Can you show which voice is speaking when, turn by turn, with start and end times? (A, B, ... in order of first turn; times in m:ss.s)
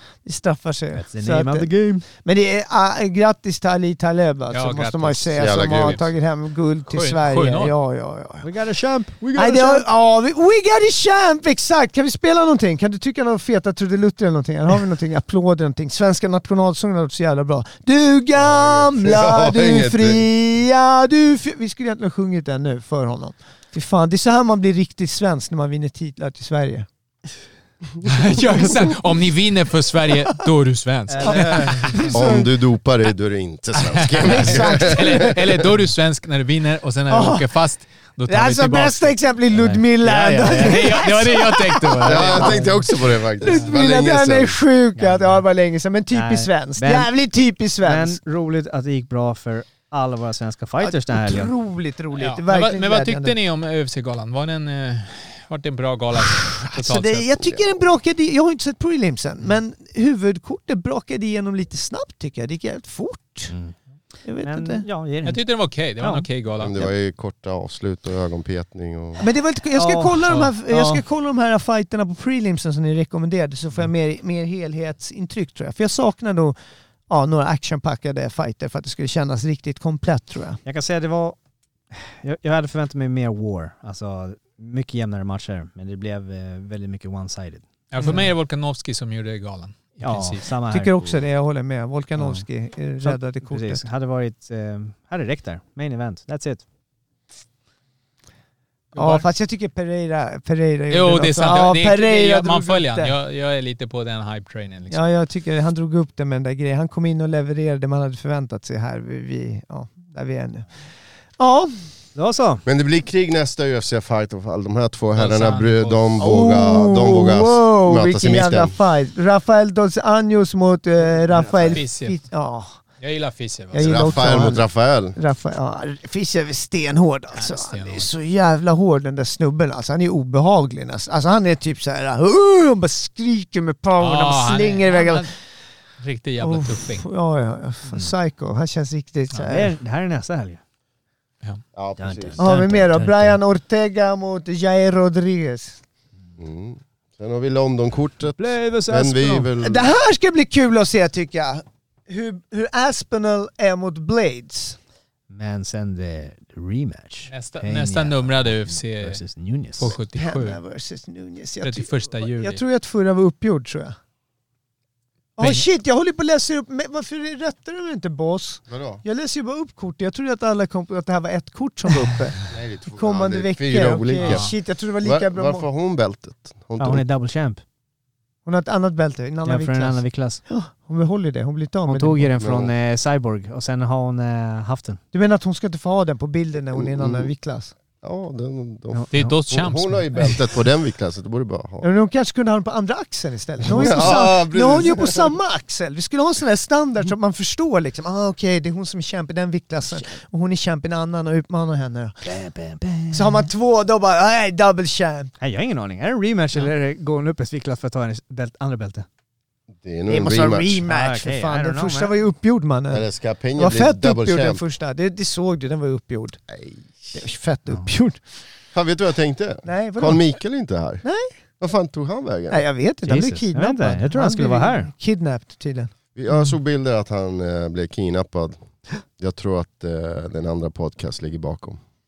0:00.2-0:08.4 A
0:00.9-0:02.0 B
0:04.5-0:05.4 C
0:05.4-0:06.1 D
0:06.9-0:07.7 C
0:08.4-0:09.9 B
0:09.4-0:26.9 A
0:18.4-0:20.3 D
0:28.0-0:32.1 C
0:31.1-0:32.2 B
0:31.2-0:32.5 A
0:32.1-0:35.6 D
0:33.8-0:39.1 C
0:34.2-0:35.4 A
0:37.1-0:37.5 A
0:38.3-0:48.2 A
0:39.5-0:41.1 B
0:40.4-0:42.7 C
0:42.0-0:44.6 D
0:45.0-0:45.4 B
0:46.1-0:47.1 B
0:47.8-0:51.5 B
0:50.8-0:53.3 A
0:52.1-0:57.3 C
0:56.7-1:03.5 A
1:03.5-1:03.7 B
1:04.2-1:04.8 A
1:04.4-1:05.4 B
1:05.2-1:06.9 C
1:06.0-1:06.2 B
1:06.6-1:09.2 D
1:09.2-1:16.6 A
1:09.7-1:11.0 B
1:17.1-1:20.6 A
1:20.6-1:21.4 B
1:21.9-1:28.2 B
1:27.9-1:30.5 C
1:28.0-1:28.3 A
1:30.0-1:30.9 B
1:30.7-1:33.8 A
1:32.2-1:32.4 B
1:33.0-1:36.6 B
1:38.9-1:39.2 C
1:38.9-1:43.1 A
1:40.9-1:45.0 C
1:44.9-1:50.6 A
1:51.4-1:51.7 A
1:52.1-1:52.6 B
1:52.6-1:58.7 D
1:55.2-1:56.2 C
1:56.2-2:02.8 A
2:01.3-2:01.8 B
2:01.7-2:02.2 C
2:03.0-2:04.2 C
2:03.7-2:04.6 A
2:03.7-2:05.2 D
2:05.2-2:15.2 A
2:07.3-2:08.1 C
2:14.0-2:15.3 C
2:16.0-2:17.0 C
2:16.4-2:19.7 A
2:17.9-2:18.1 B
2:19.3-2:20.6 B
2:21.7-2:22.4 D
2:22.0-2:23.4 B
2:22.4-2:25.8 A
2:26.4-2:29.9 D
2:28.4-2:29.5 B
2:29.6-2:34.8 A
2:35.3-2:39.9 B
2:37.3-2:39.2 C
2:39.8-2:40.6 C
2:40.1-2:44.0 A
2:41.6-2:42.6 C
2:45.4-2:52.4 A
2:45.4-2:45.6 C
2:48.7-2:49.0 D
2:52.5-2:57.0 D
2:52.9-2:55.7 A
2:54.2-2:54.5 C
2:56.8-2:57.6 B
2:58.4-3:02.3 A
2:59.4-3:00.4 B
3:01.8-3:05.0 B
3:02.4-3:02.7 D
3:05.1-3:07.7 A
3:06.7-3:07.3 D
3:08.0-3:11.9 D
3:08.9-3:09.3 B
3:09.1-3:10.4 C
3:11.8-3:22.2 A
3:13.6-3:15.3 D
3:22.2-3:23.5 B
3:23.1-3:25.3 A
3:25.4-3:29.0 B
3:29.8-3:30.8 D
3:30.1-3:33.0 A
3:30.9-3:32.1 B
3:32.9-3:34.6 D
3:33.6-3:36.4 A
3:36.5-3:37.2 D
3:37.1-3:38.2 A
3:38.7-3:41.0 D
3:39.6-3:40.2 A
3:41.0-3:41.3 A
3:41.6-3:42.6 D
3:42.5-3:45.9 A
3:43.0-3:44.9 B
3:46.1-3:48.6 D
3:49.2-3:51.8 D